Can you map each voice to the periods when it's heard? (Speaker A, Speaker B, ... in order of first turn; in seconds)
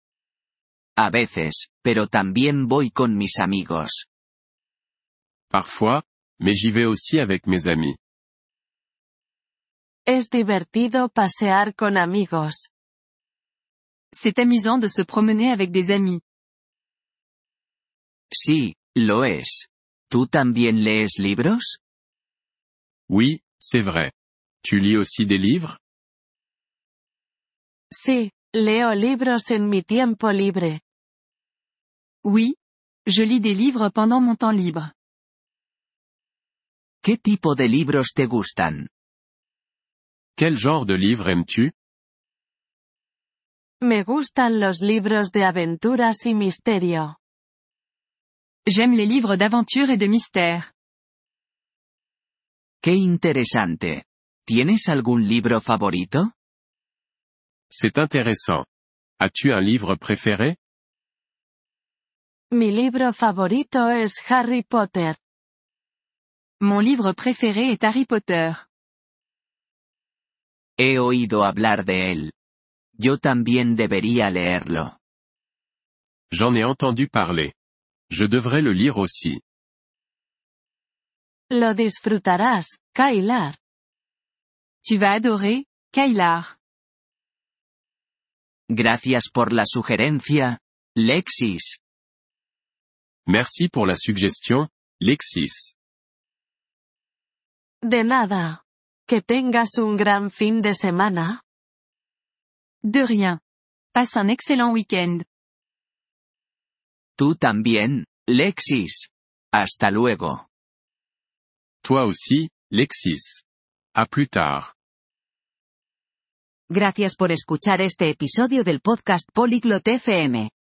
Speaker A: 1.0-4.1, 18.3-21.8, 37.0-38.9, 52.8-56.3, 70.8-72.3, 73.0-75.0, 88.7-91.8, 107.2-110.5
Speaker B: 5.5-8.0, 23.1-25.8, 40.4-41.7, 57.7-58.7, 59.2-60.6, 76.3-77.5, 78.1-79.4, 93.3-95.7, 111.8-113.4, 114.0-114.7
Speaker C: 10.1-12.7, 27.9-30.8, 43.8-47.2, 62.5-65.2, 81.5-83.6, 97.8-101.4
Speaker D: 14.1-16.2, 32.2-34.9, 48.7-50.7, 66.6-68.7, 84.8-86.5, 102.8-103.4, 103.9-105.2
Speaker E: 116.7-120.5